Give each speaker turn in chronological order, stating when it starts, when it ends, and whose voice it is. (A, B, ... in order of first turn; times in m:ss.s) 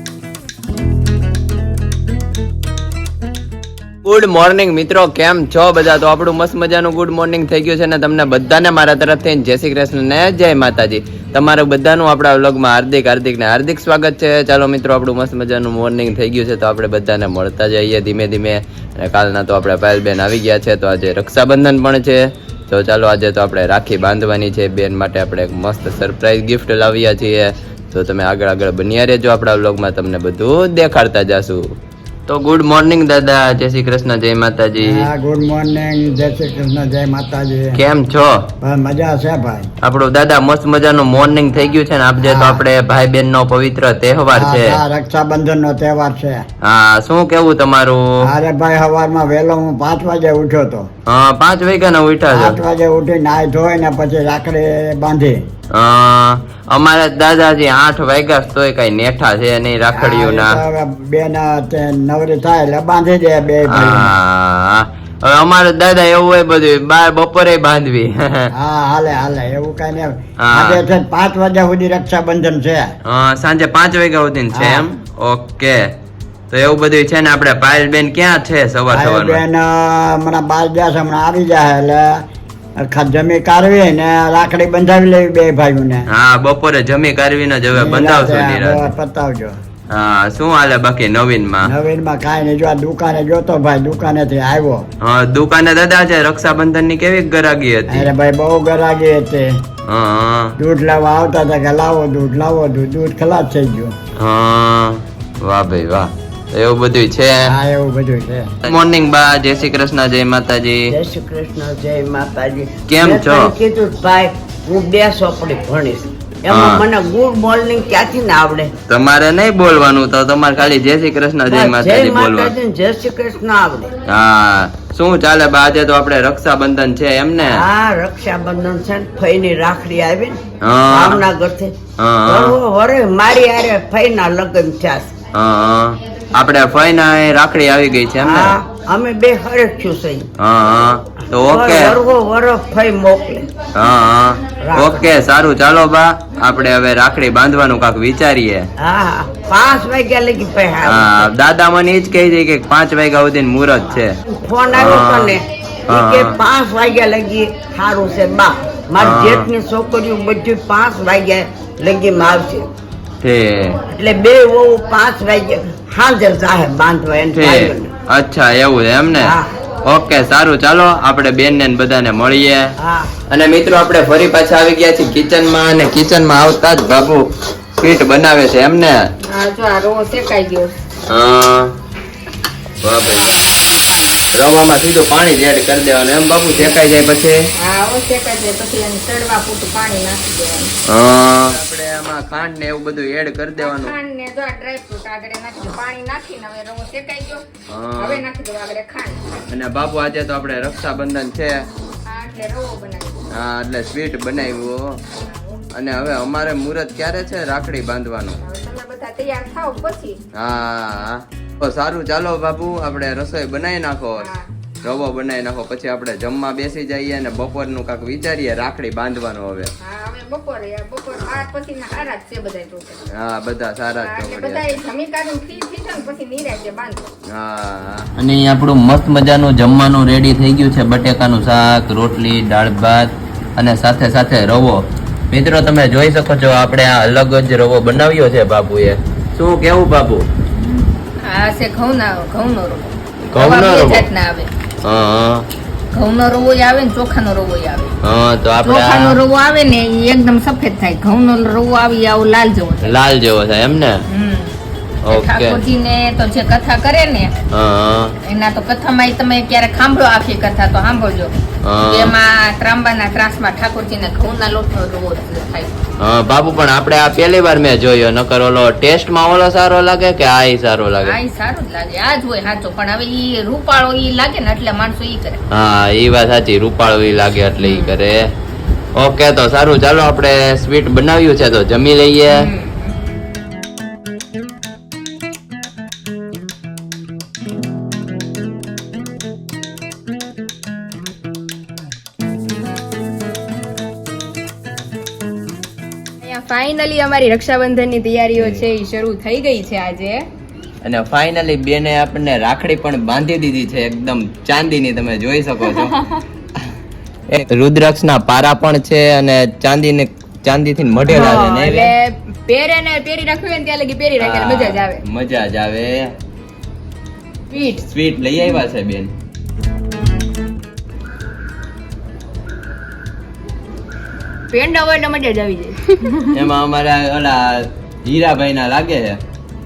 0:04.0-0:31.7 A
0:32.3-0:35.1 A
0:34.8-0:37.8 B
0:37.7-0:38.4 A
0:38.6-0:39.7 B
0:39.8-0:44.8 A
0:42.2-0:42.6 B
0:44.3-0:46.4 B
0:46.6-0:48.0 A
0:48.2-0:50.9 B
0:51.0-0:52.6 A
0:52.3-0:55.4 B
0:55.7-1:00.6 A
0:59.9-1:04.1 B
1:03.7-1:08.5 A
1:08.5-1:12.9 B
1:10.4-1:10.8 A
1:13.0-1:15.9 A
1:14.5-1:14.8 B
1:16.5-1:19.4 A
1:18.9-1:22.2 B
1:22.8-1:26.0 B
1:26.1-1:28.9 A
1:27.7-1:29.6 B
1:29.9-1:31.7 A
1:31.6-1:34.8 B
1:35.0-1:38.1 A
1:37.9-1:39.6 B
1:39.8-1:40.5 A
1:40.6-1:43.9 B
1:44.2-1:47.5 A
1:47.4-1:48.5 B
1:48.6-1:50.9 A
1:50.9-1:58.7 C
1:52.9-1:53.5 A
1:56.5-1:56.8 A
1:58.9-2:02.5 A
2:01.4-2:03.9 C
2:04.1-2:07.6 A
2:07.4-2:15.1 C
2:10.6-2:11.3 A
2:12.0-2:12.6 A
2:15.3-2:18.6 A
2:18.2-2:20.3 C
2:20.4-2:22.0 A
2:21.4-2:23.5 C
2:23.7-2:28.7 A
2:24.6-2:25.0 C
2:28.8-2:31.3 C
2:30.8-2:34.1 A
2:34.3-2:42.6 C
2:34.7-2:36.4 A
2:39.0-2:39.5 A
2:43.2-2:43.8 A
2:43.9-2:47.9 C
2:47.3-2:52.7 A
2:49.2-2:49.5 C
2:52.8-2:53.1 C
2:53.3-2:59.0 A
2:59.3-3:00.7 D
3:01.1-3:01.7 A
3:02.8-3:03.4 A
3:03.0-3:04.2 D
3:04.3-3:07.4 A
3:07.6-3:10.7 D
3:10.9-3:14.0 A
3:13.6-3:17.4 D
3:17.7-3:18.2 A
3:18.0-3:19.2 D
3:19.5-3:21.6 A
3:22.1-3:23.2 D
3:23.3-3:24.8 A
3:25.2-3:25.6 D
3:25.7-3:28.4 A
3:28.4-3:30.2 D
3:30.4-3:34.3 A
3:34.2-3:34.5 D
3:34.8-3:39.7 A
3:39.8-3:43.0 D
3:43.1-3:44.8 A
3:44.0-3:47.1 D
3:47.3-4:00.3 A
4:01.2-4:04.5 D
4:03.3-4:04.0 A
4:04.8-4:05.4 A
4:05.9-4:07.9 D
4:08.0-4:09.2 A
4:08.6-4:12.9 D
4:12.8-4:14.0 A
4:14.1-4:14.6 D
4:15.0-4:15.6 A
4:15.1-4:17.3 D
4:17.5-4:18.1 A
4:18.2-4:21.3 D
4:21.6-4:22.1 A
4:21.9-4:25.8 D
4:26.0-4:31.2 A
4:31.0-4:35.4 D
4:35.5-4:38.3 A
4:37.6-4:37.9 D
4:38.9-4:42.4 A
4:42.3-4:42.9 D
4:56.2-5:00.2 E
4:58.4-4:58.6 A
5:00.8-5:06.0 A
5:05.7-5:06.2 E
5:07.3-5:11.9 A
5:11.1-5:15.0 E
5:14.2-5:16.1 A
5:17.5-5:17.8 E
5:17.8-5:19.1 A
5:24.5-5:26.3 E
5:26.3-5:29.2 A